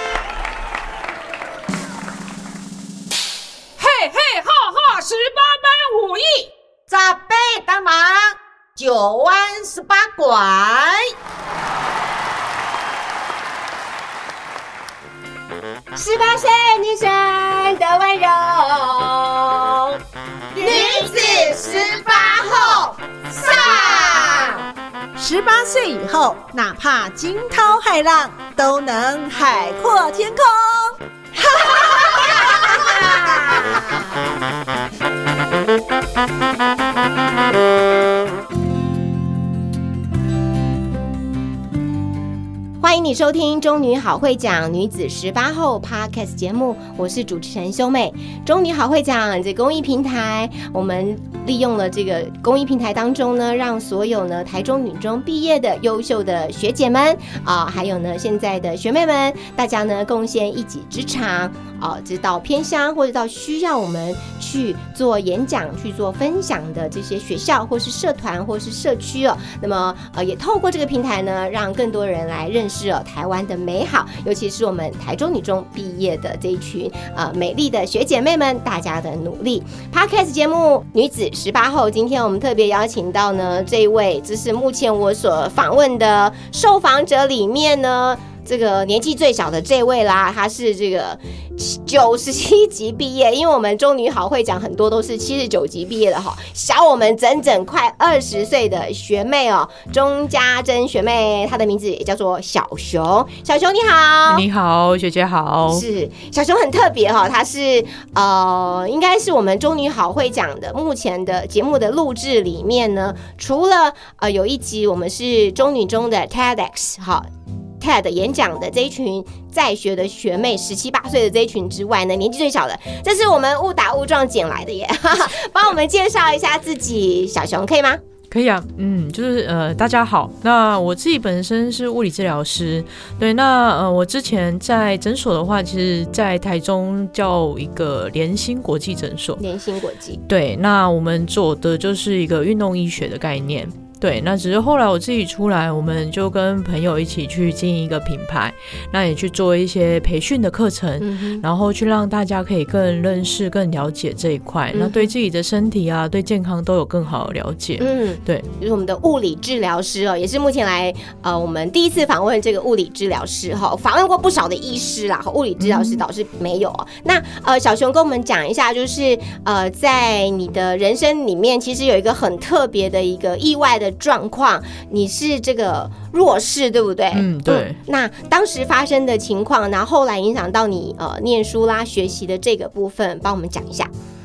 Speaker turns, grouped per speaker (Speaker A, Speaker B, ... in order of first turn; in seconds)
Speaker A: 3.8-11.1, 20.6-22.8, 23.4-24.2, 25.2-33.9
Speaker B: 15.9-20.0, 20.6-24.6, 31.7-33.2, 42.8-104.5, 105.7-117.3, 117.8-128.0, 139.4-140.2, 151.0-151.4, 154.7-155.1, 157.8-183.9
Speaker C: 104.3-105.8, 128.3-139.4, 140.3-158.5, 165.6-166.0, 177.1-177.8